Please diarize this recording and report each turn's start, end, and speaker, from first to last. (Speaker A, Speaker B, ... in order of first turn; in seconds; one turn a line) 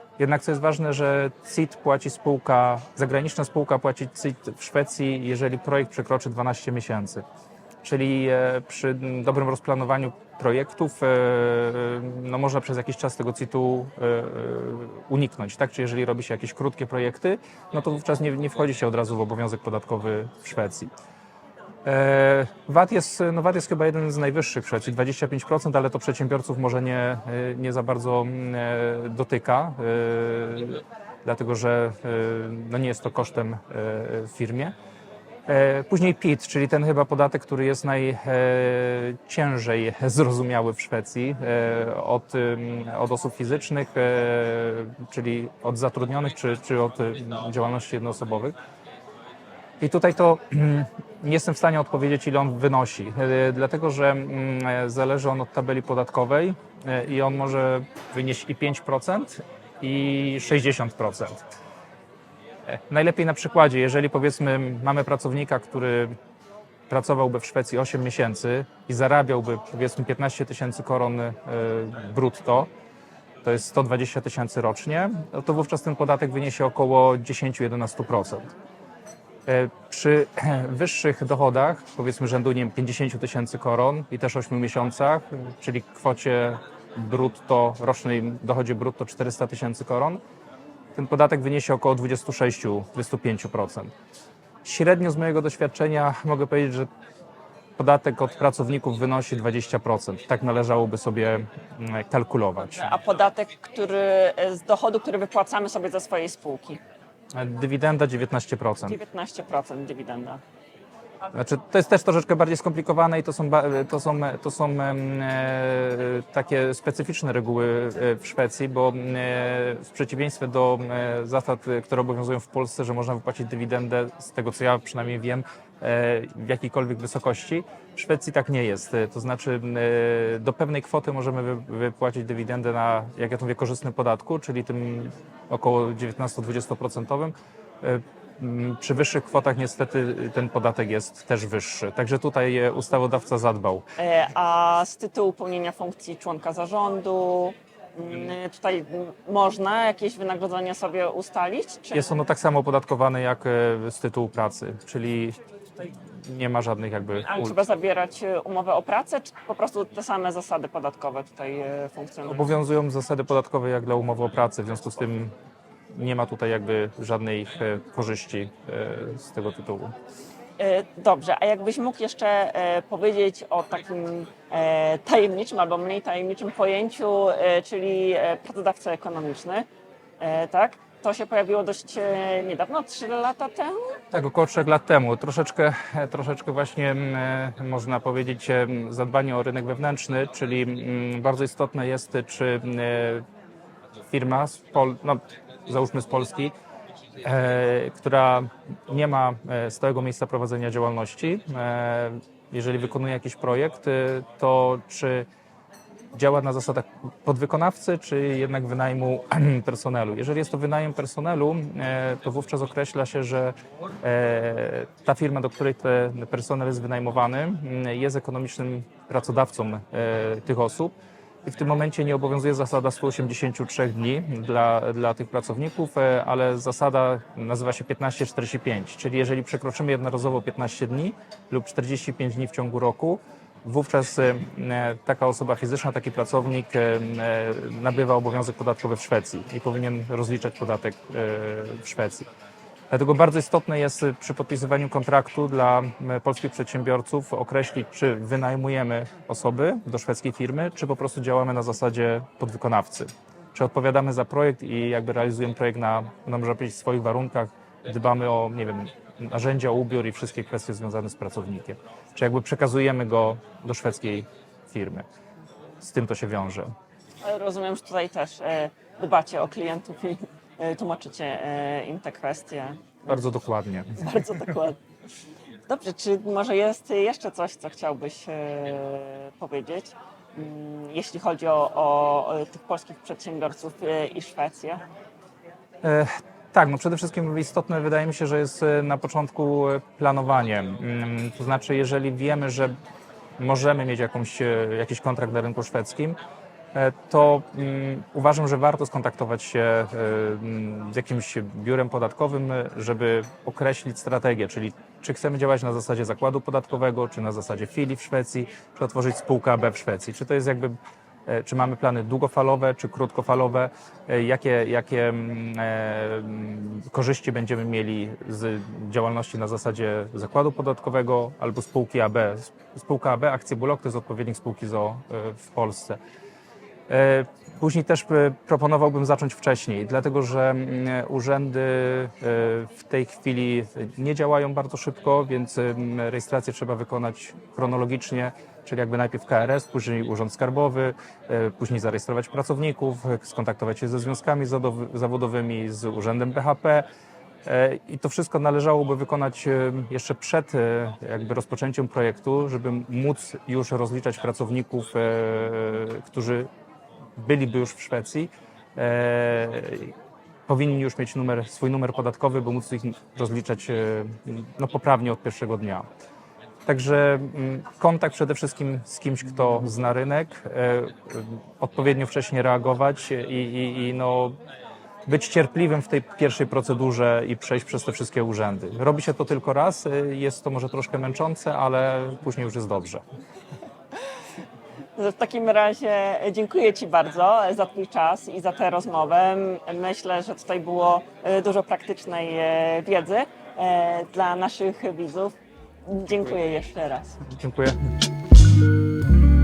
Speaker A: 0.2-7.2
Speaker A: 7.8-20.9
Speaker A: 21.8-34.7
Speaker A: 35.5-48.5
Speaker A: 49.8-61.4
Speaker A: 62.7-66.1
Speaker A: 66.9-72.7
Speaker A: 73.4-78.5
Speaker A: 79.5-90.2
Speaker A: 90.9-93.9
Speaker A: 94.6-96.9
Speaker A: 97.8-102.9
Speaker B: 102.6-106.8
Speaker A: 107.3-109.0
Speaker B: 108.8-110.4
Speaker A: 111.3-143.8
Speaker B: 144.0-152.1
Speaker A: 151.9-157.6
Speaker B: 157.2-162.5
Speaker A: 162.2-165.3
Speaker A: 165.9-169.9
Speaker B: 170.6-179.7
Speaker B: 180.2-183.9
Speaker A: 184.1-193.2
Speaker A: 194.1-196.5
Speaker A: 197.2-205.3
Speaker A: 206.1-220.9
Speaker A: 221.4-242.3
Speaker A: 242.9-265.0
Speaker A: 265.8-266.7
Speaker B: 267.2-272.9
Speaker A: 273.1-274.4
Speaker B: 274.0-274.8
Speaker B: 275.7-284.8
Speaker A: 285.8-292.7
Speaker A: 293.4-296.2
Speaker A: 296.7-326.0
Speaker A: 326.9-346.8
Speaker A: 347.4-356.5
Speaker A: 357.2-359.9
Speaker A: 360.5-365.9
Speaker A: 366.6-374.4
Speaker A: 375.1-383.0
Speaker B: 384.9-395.3
Speaker B: 395.9-397.2
Speaker A: 397.2-397.9